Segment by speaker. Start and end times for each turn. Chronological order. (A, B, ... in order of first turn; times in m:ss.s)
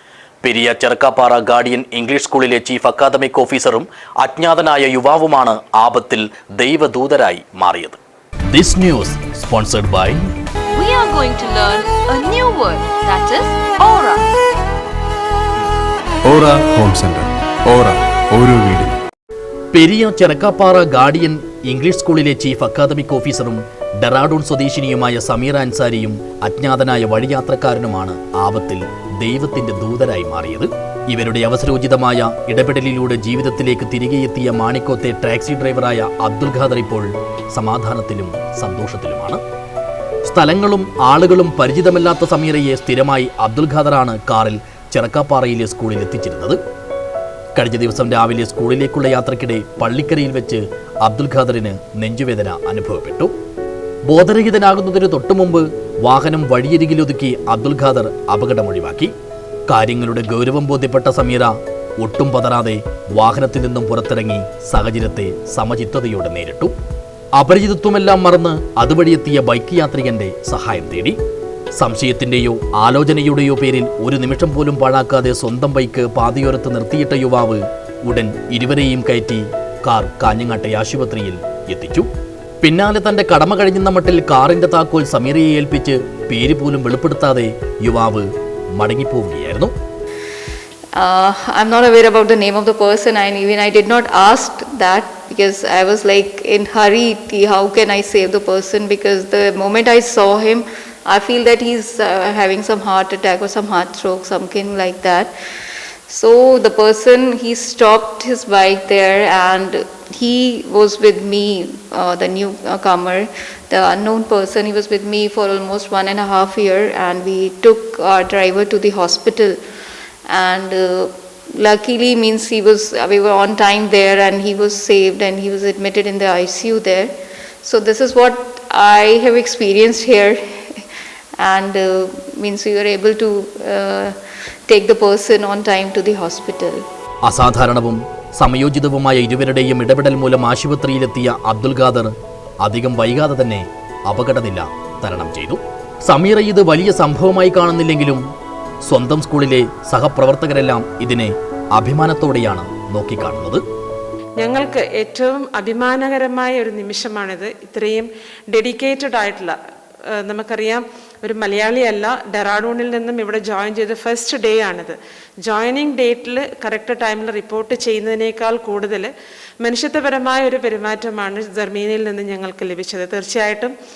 0:00.4-0:08.0 A
0:08.5-0:10.2 A
0:10.7-0:14.3 B
0:16.3-0:19.0 C
0:19.7-0:39.4 A
0:40.3-0:46.6 A
0:47.6-0:53.3 A
0:54.1-0:59.1 A
0:59.7-1:06.7 A
1:07.4-1:11.2 A
1:11.8-1:22.1 A
1:22.6-1:29.7 A
1:31.0-1:45.3 D
1:46.1-1:59.6 D
2:00.3-2:10.8 D
2:11.4-2:14.2 D
2:14.7-2:16.8 D
2:17.2-2:28.2 A
2:28.9-2:33.6 A
2:34.4-2:39.6 E
2:40.1-2:53.7 E